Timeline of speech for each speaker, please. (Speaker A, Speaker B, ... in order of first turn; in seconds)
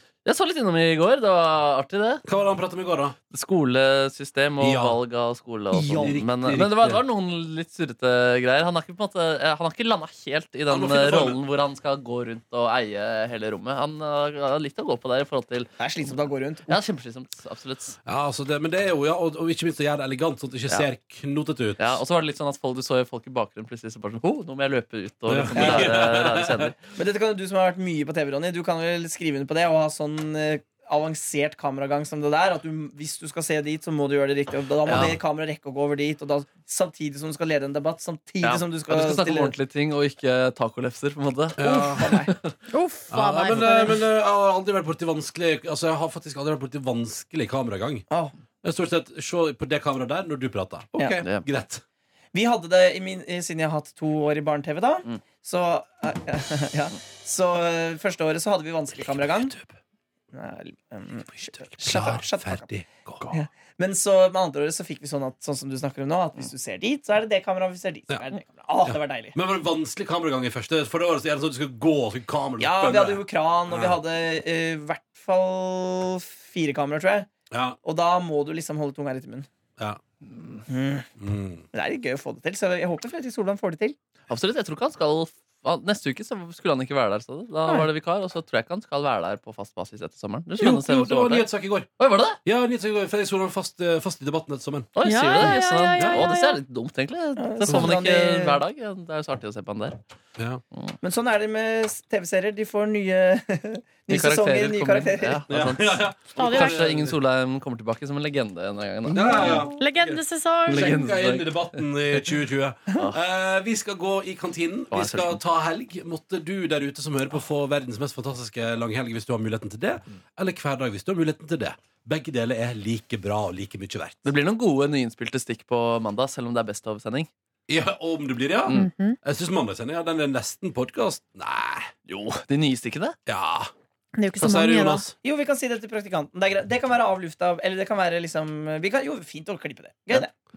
Speaker A: 0.2-2.2, 3.3-18.0, 21.8-26.8, 34.9-35.2, 38.4-42.5, 51.0-51.5, 84.3-92.4, 94.9-100.0, 104.1-109.7, 110.7-111.8, 114.9-115.4, 124.2-127.3, 132.1-133.2
Speaker B: 2.2-3.1, 4.6-5.0, 6.0-7.0, 10.7-11.4, 18.1-21.9, 25.3-26.7, 41.6-42.2, 43.1-48.1, 48.6-51.8, 59.1-59.8, 61.4-63.4, 68.8-74.0, 77.5-77.8, 81.2-81.7, 90.6-91.9, 92.4-96.3, 100.4-100.6, 105.5-107.2, 109.1-124.3, 127.7-131.9, 133.3-133.7, 134.4-135.1
Speaker C: 5.7-6.2, 15.8-16.8, 25.6-26.1, 27.0-39.5, 41.6-42.3, 48.1-48.4, 51.0-51.2, 52.3-59.5, 60.3-62.7, 63.3-69.4, 72.6-77.3, 77.8-79.5, 80.7-81.1, 81.7-84.0, 97.4-98.6, 101.0-105.5, 109.3-109.7, 135.2-140.3
Speaker D: 42.7-44.0, 95.0-96.6, 106.4-106.8, 109.4-111.2, 128.7-129.2, 134.2-135.1